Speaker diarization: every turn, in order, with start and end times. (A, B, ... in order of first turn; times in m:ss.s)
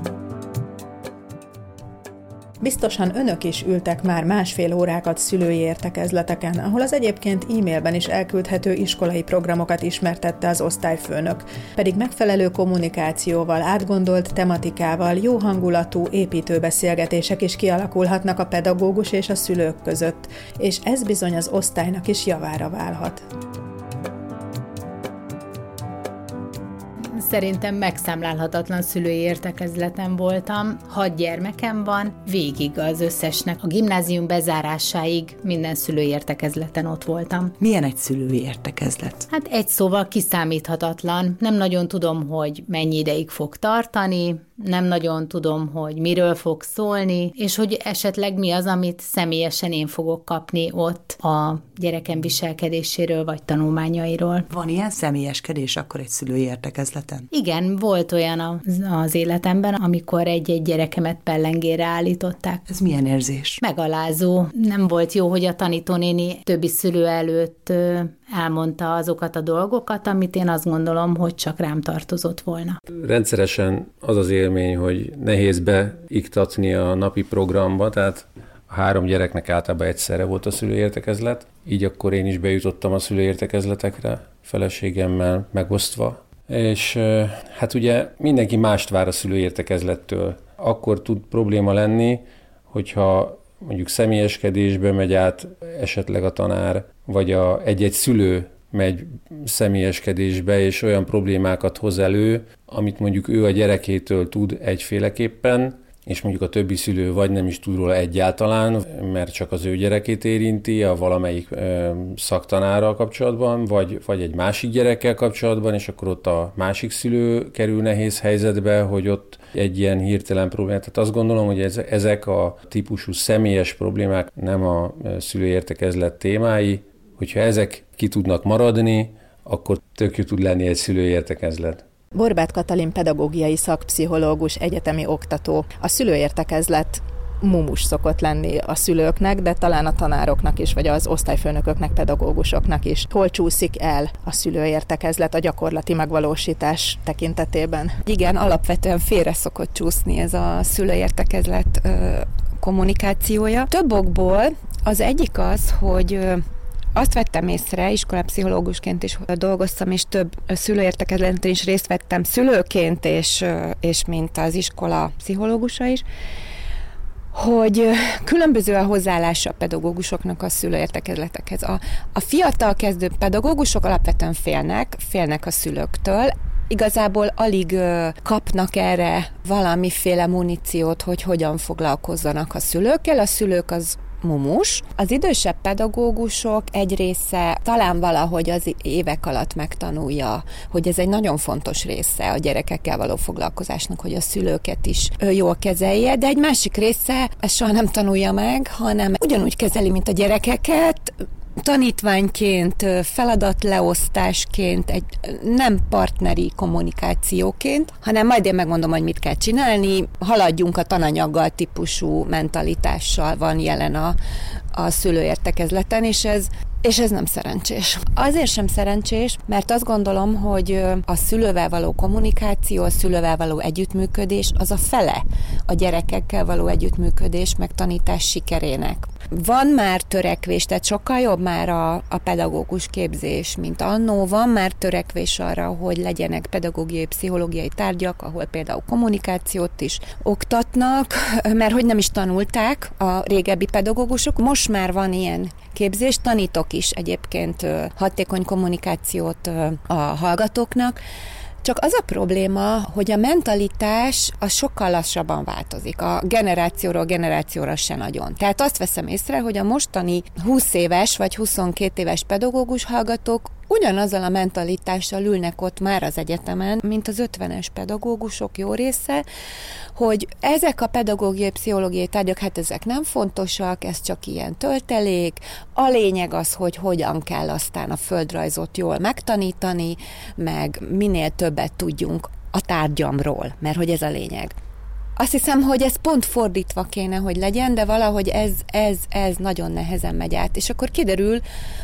0:02.6-0:23.2 A
0:27.1-0:37.5 B
0:37.6-0:39.3 C
0:39.3-0:54.5 B
0:54.5-0:57.3 C
0:57.3-1:02.6 B
1:02.7-1:03.6 C
1:03.6-1:12.8 B
1:13.0-2:11.8 D
2:12.1-2:27.9 A
2:28.0-2:36.4 E
2:36.9-2:46.0 E
2:47.3-3:34.2 E
3:34.7-4:11.0 E
4:11.6-4:29.2 E
4:29.9-4:44.6 E
4:45.2-4:51.4 E